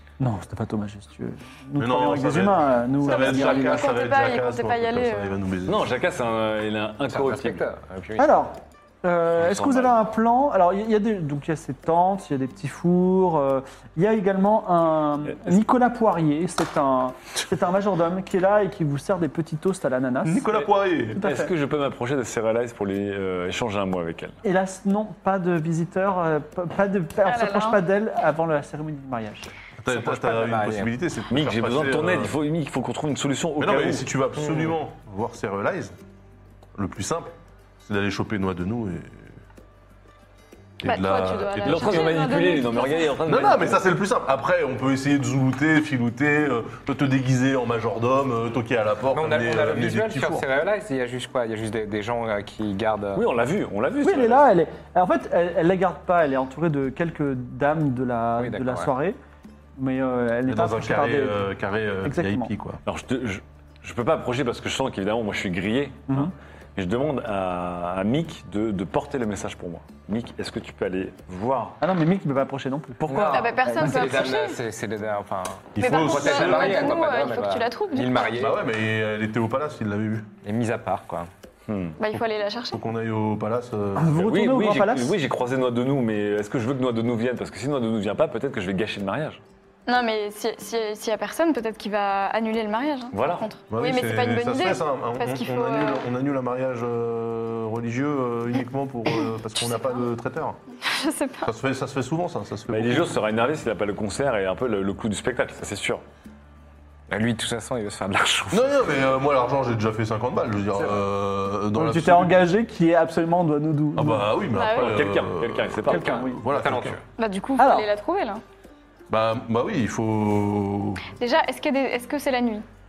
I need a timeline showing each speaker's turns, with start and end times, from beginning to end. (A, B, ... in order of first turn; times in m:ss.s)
0:00.2-0:03.8 A
0:01.8-0:05.9 B
0:03.1-0:05.4 C
0:05.7-0:07.6 D
0:07.1-0:08.3 E
0:08.2-0:21.5 A
0:09.4-0:09.9 D
0:15.3-0:15.6 D
0:20.2-0:21.2 B
0:21.2-0:24.4 D
0:24.4-0:29.5 A
0:27.3-0:27.8 C
0:29.8-0:32.4 B
0:29.9-0:30.9 E
0:31.3-0:34.1 D
0:33.6-0:36.0 B
0:34.4-0:34.8 E
0:36.8-0:37.3 B
0:37.8-0:39.2 B
0:40.8-0:42.3 B
0:40.8-0:43.2 C
0:41.6-0:43.8 D
0:43.2-0:50.4 B
0:49.1-0:53.2 E
0:53.2-0:54.5 D
0:54.0-0:59.2 A
0:58.4-0:58.9 E
0:59.8-1:01.5 A
1:00.5-1:02.8 B
1:02.0-1:02.5 A
1:02.8-1:11.8 D
1:11.8-1:14.2 A
1:13.0-1:13.5 D
1:13.1-1:18.6 E
1:13.3-1:14.6 C
1:15.8-1:17.1 B
1:15.8-1:18.4 C
1:18.4-1:20.3 B
1:20.4-1:21.3 E
1:21.7-1:22.0 D
1:22.0-1:22.8 C
1:22.1-1:24.2 B
1:24.0-1:25.1 A
1:24.2-1:29.4 D
1:29.9-1:36.1 C
1:33.1-1:33.5 D
1:33.7-1:40.6 B
1:39.6-1:40.0 C
1:40.8-1:41.5 C
1:41.4-1:43.2 B
1:42.7-1:46.0 D
1:47.1-1:48.8 E
1:48.5-1:52.4 B
1:50.8-1:51.0 E
1:51.7-1:54.3 A
1:54.0-1:57.0 B
1:54.5-1:55.0 C
1:54.6-1:56.1 D
1:55.9-1:56.4 A
1:56.0-1:57.0 E
1:57.2-1:58.4 C
1:57.6-1:57.9 A
1:59.1-2:01.0 B
2:01.2-2:02.6 C